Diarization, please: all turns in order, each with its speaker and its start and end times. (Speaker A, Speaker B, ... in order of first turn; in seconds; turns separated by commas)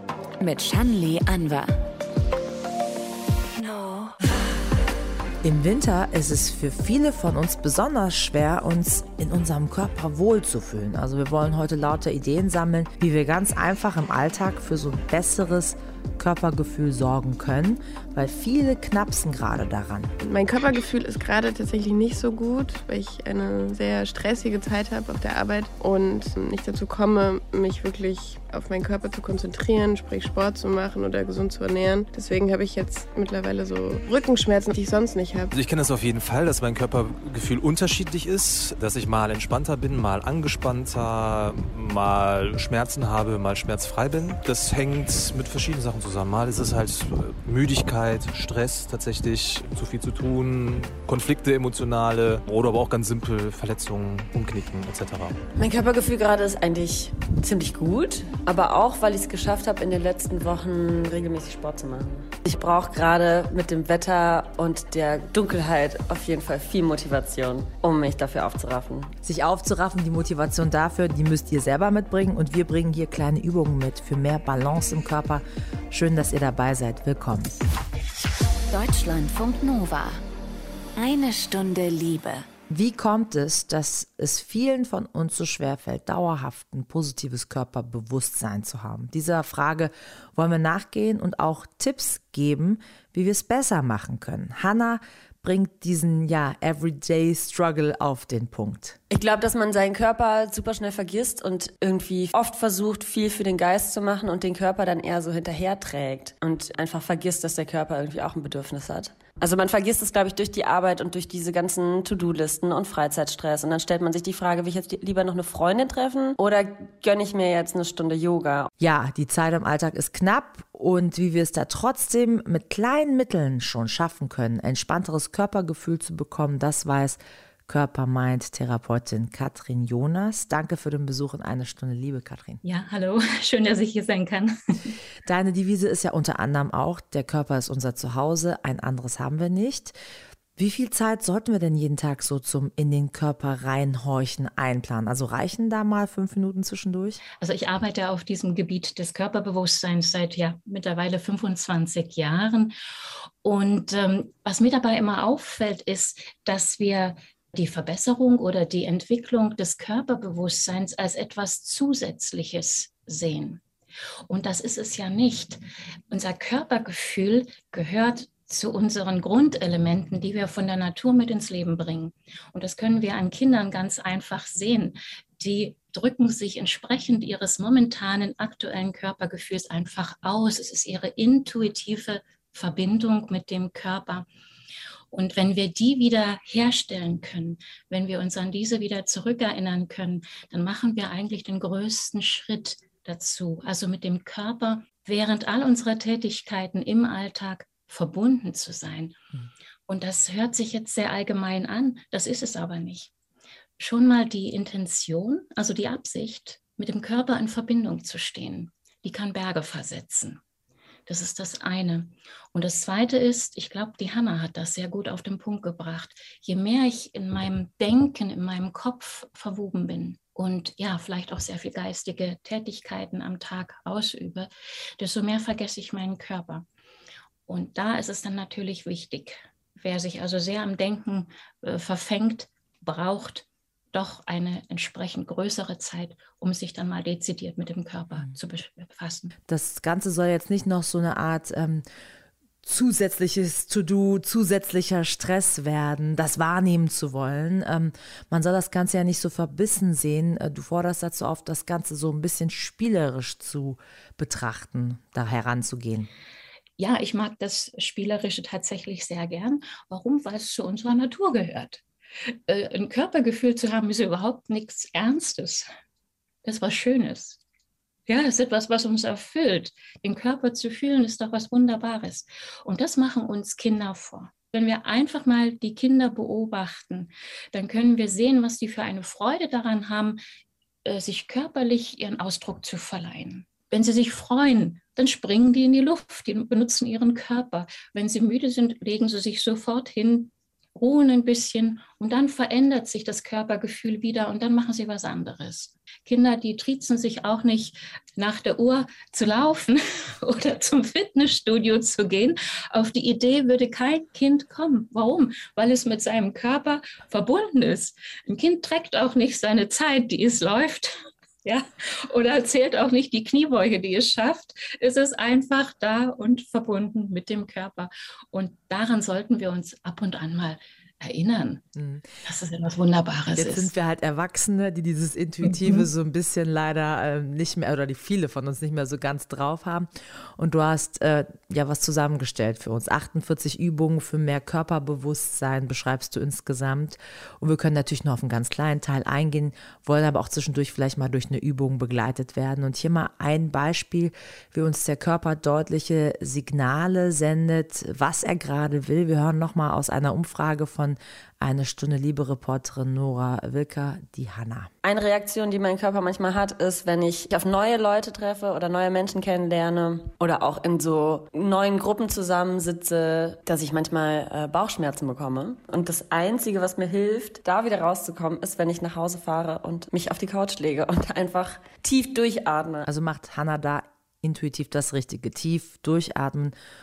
Speaker A: 0.4-1.7, Speaker A: 3.6-4.3, Speaker B: 5.4-20.1, Speaker C: 20.2-35.5, Speaker D: 35.5-55.4, Speaker E: 55.6-69.1, Speaker B: 69.2-77.5, Speaker A: 78.7-80.2, Speaker A: 81.0-82.5, Speaker B: 82.7-99.0, Speaker E: 99.1-118.7, Speaker B: 118.8-132.6, Speaker F: 132.6-135.0, Speaker B: 135.2-139.9, Speaker B: 140.6-147.2, Speaker F: 147.4-152.7, Speaker F: 153.4-163.6, Speaker F: 164.3-165.6, Speaker F: 166.1-184.3, Speaker F: 185.1-199.2, Speaker F: 199.9-203.1, Speaker F: 203.8-210.4, Speaker F: 211.1-226.7, Speaker F: 227.5-239.3, Speaker B: 239.5-241.8, Speaker B: 242.6-256.1, Speaker F: 256.8-261.8, Speaker F: 262.4-265.7, Speaker F: 266.4-267.4, Speaker F: 268.1-280.2, Speaker F: 280.9-321.6, Speaker B: 321.8-322.1, Speaker F: 322.2-323.7, Speaker B: 323.3-354.7, Speaker F: 325.5-325.9, Speaker E: 354.8-372.9, Speaker B: 372.9-376.6